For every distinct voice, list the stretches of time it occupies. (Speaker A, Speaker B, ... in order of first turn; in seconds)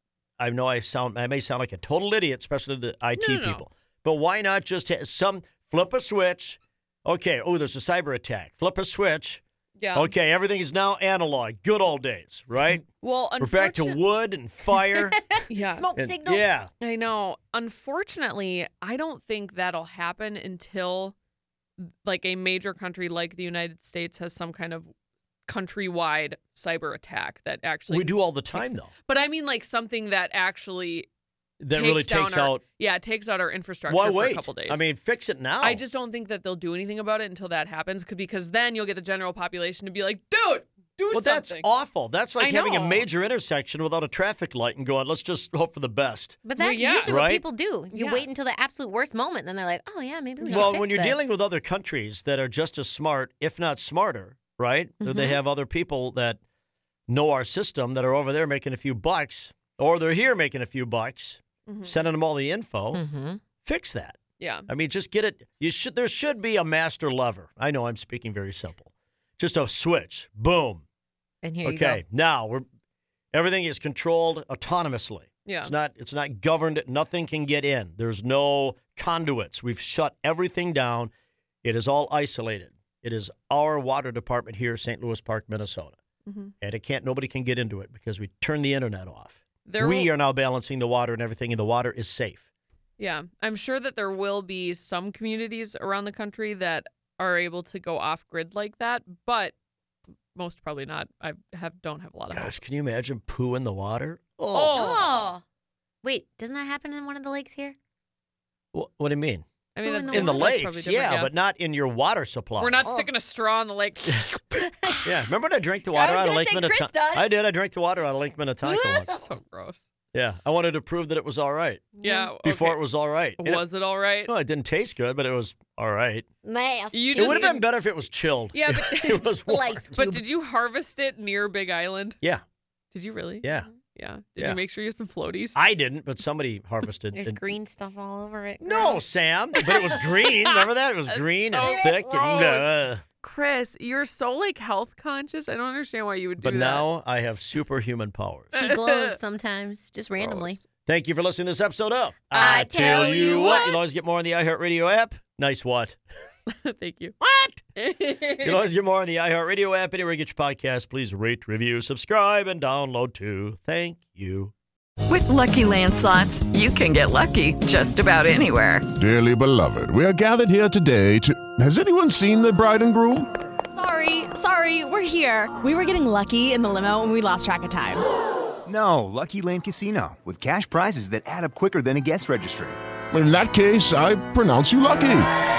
Speaker A: 0.4-9.4, 9.9-12.9, 13.4-15.2, 16.0-16.7, 27.9-28.9, 31.6-32.6, 33.9-35.8, 41.1-46.4, 47.0-47.4, 50.5-56.4, 57.1-63.0, 63.6-70.8, 71.7-72.7, 73.3-81.1, 81.6-86.0, 86.6-92.4, 102.3-105.1, 108.7-109.5, 110.1-112.8, 115.0-119.3, 120.1-123.6, 124.3-126.3, 127.2-129.9, 133.4-133.7, 135.6-137.4, 138.6-143.0, 146.4-148.6, 150.2-156.0, 157.2-157.6, 158.4-164.5
Speaker B: 3.2-3.6, 9.8-10.1, 13.0-14.0, 15.5-15.9, 16.8-21.1, 21.8-24.9, 25.5-31.1, 31.7-34.8, 35.6-41.7, 42.4-43.0, 46.6-47.2, 47.9-48.3, 50.4-50.8, 61.7-61.9, 64.4-64.7, 75.5-75.7, 86.3-86.5, 89.7-90.1, 93.0-99.5, 100.3-102.6, 104.5-105.2, 109.8-111.3, 112.6-114.4, 118.7-119.9, 122.0-122.8, 123.4-124.3, 126.9-127.6, 128.5-129.4, 129.9-132.2, 132.9-135.6, 140.4-146.9, 148.6-149.2, 152.4-153.7, 156.5-157.2, 157.8-158.7
Speaker C: 14.7-16.6, 46.4-51.3, 55.0-55.4, 62.9-63.4, 71.4-72.0, 104.7-105.4, 106.0-107.8, 109.8-110.5, 112.8-113.1, 114.5-115.1, 115.9-117.3, 118.9-119.2, 122.0-122.3, 126.4-127.6, 129.3-130.2, 137.1-139.0, 139.6-140.2, 141.6-141.9, 148.6-150.6, 152.3-153.8
Speaker D: 165.1-168.9
Speaker E: 169.0-173.3, 183.1-185.3
Speaker F: 173.7-178.0
Speaker G: 178.7-182.8